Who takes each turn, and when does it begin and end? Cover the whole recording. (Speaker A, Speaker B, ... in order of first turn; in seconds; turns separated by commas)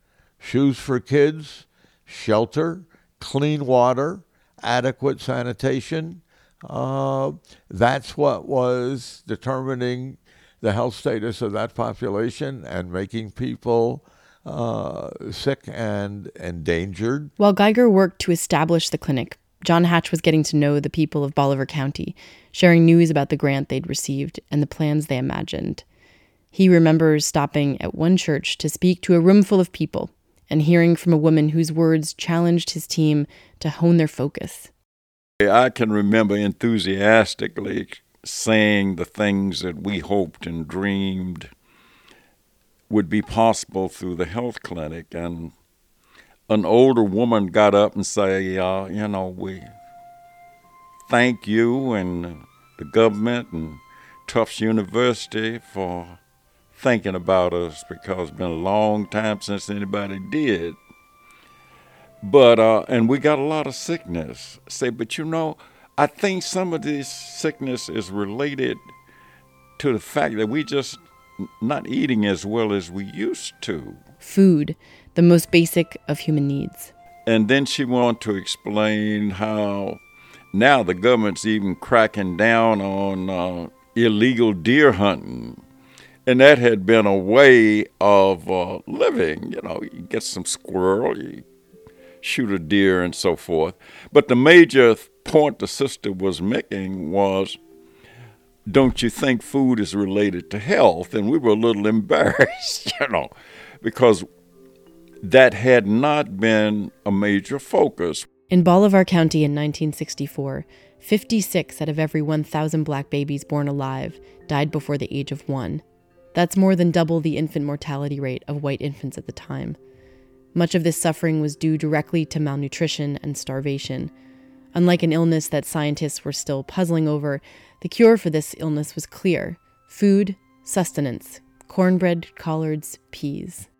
Speaker A: 0.4-17.3, Speaker B: 17.4-25.8, Speaker B: 26.5-34.7, Speaker C: 35.4-41.5, Speaker C: 42.9-45.5, Speaker C: 46.5-49.7, Speaker C: 51.1-56.2, Speaker C: 56.7-60.8, Speaker C: 62.2-68.8, Speaker C: 69.8-74.0, Speaker B: 74.2-76.9, Speaker C: 77.3-80.0, Speaker C: 80.5-85.6, Speaker C: 86.2-91.4, Speaker C: 92.2-97.6, Speaker C: 98.7-104.3, Speaker C: 105.2-108.2, Speaker B: 108.5-115.8, Speaker B: 116.3-119.8, Speaker B: 120.5-124.1, Speaker B: 124.7-133.7